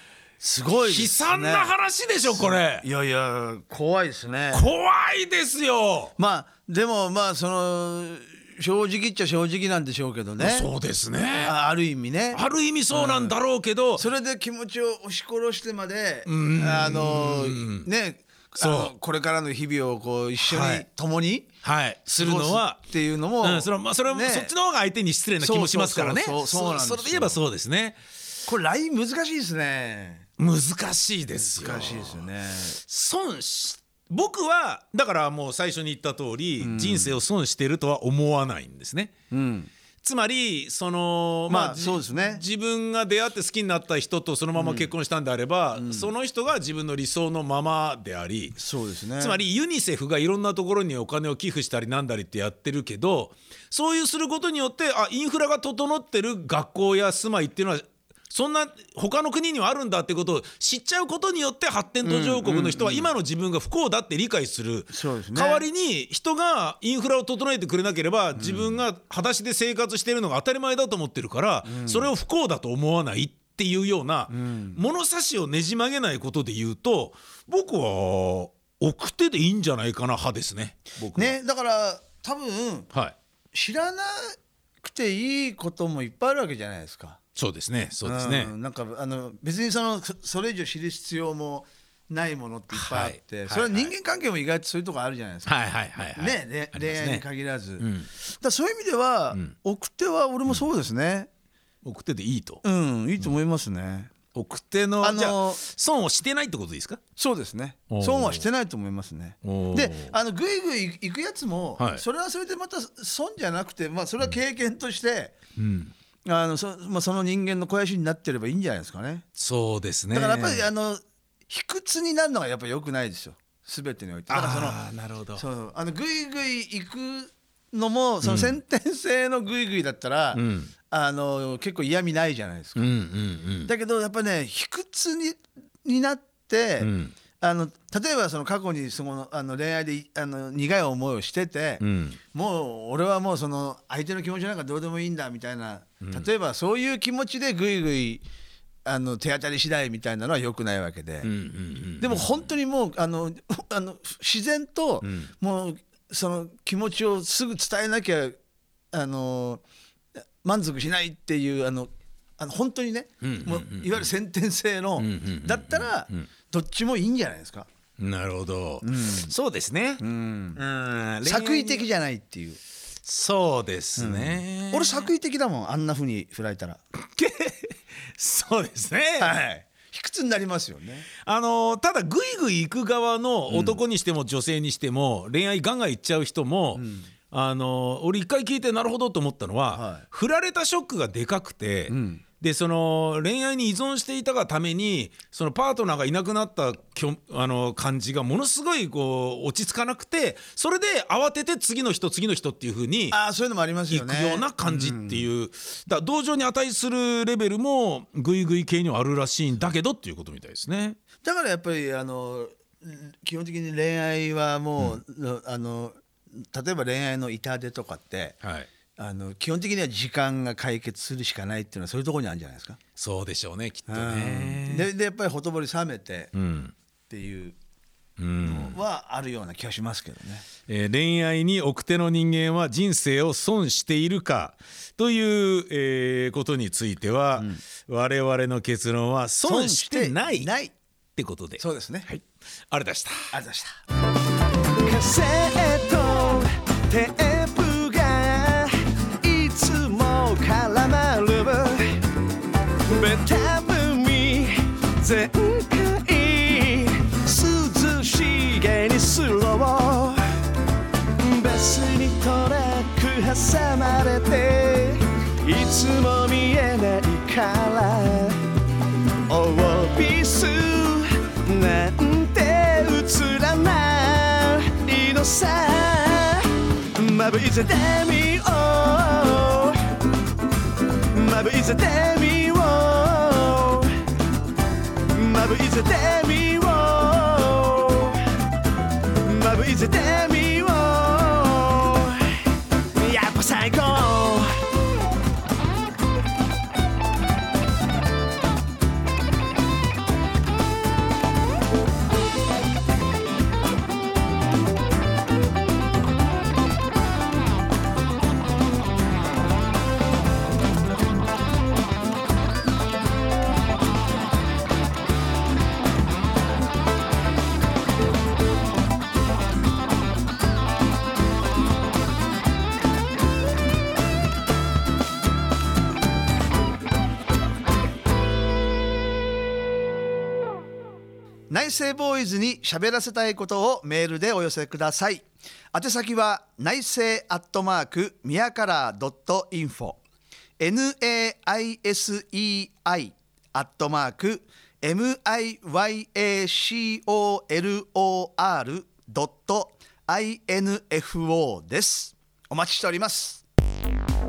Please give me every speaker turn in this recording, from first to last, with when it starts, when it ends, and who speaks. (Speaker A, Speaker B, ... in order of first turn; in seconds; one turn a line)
Speaker A: 0.4-1.7
Speaker B: 0.9-2.9
Speaker A: 2.2-4.7
Speaker B: 4.5-6.1
Speaker A: 6.2-10.7
Speaker B: 10.4-11.6
Speaker A: 11.4-13.3
Speaker B: 12.3-14.0
Speaker A: 13.9-21.5
Speaker B: 16.2-17.9
Speaker B: 18.6-18.9
Speaker B: 20.4-20.8
Speaker B: 21.6-22.8
Speaker A: 22.2-24.5
Speaker B: 23.4-28.0
Speaker A: 25.4-27.4
Speaker A: 28.4-30.2
Speaker B: 30.4-39.1
Speaker A: 31.4-32.8
Speaker A: 36.6-37.2
Speaker A: 39.3-39.7
Speaker B: 40.0-48.6
Speaker A: 41.5-42.4
Speaker A: 44.5-44.9
Speaker A: 45.7-46.1
Speaker A: 48.6-49.4
Speaker B: 49.2-81.3
Speaker A: 62.0-63.1
Speaker A: 64.9-65.6
Speaker A: 68.3-68.8
Speaker A: 71.7-72.1
Speaker A: 74.3-74.8
Speaker A: 81.1-82.9
Speaker A: 83.5-87.2
Speaker B: 87.3-88.5
Speaker A: 88.0-95.5
Speaker B: 92.7-93.9
Speaker B: 95.4-97.2
Speaker A: 96.2-101.3
Speaker B: 97.8-98.1
Speaker B: 101.8-102.6
Speaker A: 102.6-104.1
Speaker B: 104.3-107.0
Speaker A: 105.0-105.6
Speaker A: 107.2-115.3
Speaker B: 107.9-108.5
Speaker B: 109.4-110.1
Speaker B: 111.8-112.0
Speaker B: 115.6-115.9
Speaker A: 116.2-119.2
Speaker B: 119.4-120.7
Speaker A: 120.1-124.8
Speaker B: 124.3-125.4
Speaker A: 125.3-132.9
Speaker B: 128.2-128.6
Speaker B: 130.3-130.7
Speaker B: 132.8-133.7
Speaker A: 133.7-148.2
Speaker B: 136.8-137.1
Speaker B: 141.8-142.2
Speaker B: 146.0-146.3
Speaker A: 148.8-151.3
Speaker B: 151.2-152.5
Speaker A: 152.0-158.4
Speaker B: 155.0-155.3
Speaker A: 158.9-159.6
Speaker A: 160.4-167.7
Speaker B: 163.2-164.1
Speaker B: 165.0-166.3
Speaker B: 168.0-170.0
Speaker A: 168.8-169.3
Speaker A: 170.0-170.6
Speaker B: 170.6-171.8
Speaker A: 171.2-172.6
Speaker B: 173.0-175.1
Speaker A: 173.9-176.8
Speaker B: 177.1-179.4
Speaker A: 179.2-181.1
Speaker B: 181.2-203.2
Speaker A: 183.5-183.8
Speaker A: 186.8-187.1
Speaker A: 189.7-190.0
Speaker A: 191.9-192.2
Speaker A: 203.1-205.3
Speaker B: 203.9-211.0
Speaker A: 211.2-218.4
Speaker B: 218.4-218.7
Speaker A: 219.0-222.8
Speaker B: 222.9-224.9
Speaker A: 223.9-226.3
Speaker B: 226.3-226.7
Speaker A: 227.1-227.6
Speaker B: 228.2-228.8
Speaker A: 228.4-230.4
Speaker B: 230.7-240.5
Speaker A: 239.4-240.7
Speaker B: 241.2-243.3
Speaker A: 241.6-242.1
Speaker A: 243.3-243.7
Speaker A: 244.8-252.1
Speaker A: 252.8-260.2
Speaker A: 261.2-268.4
Speaker A: 269.3-279.9
Speaker A: 281.1-284.0
Speaker A: 285.1-288.3
Speaker A: 289.2-294.7
Speaker A: 331.5-340.0
Speaker A: 340.6-353.4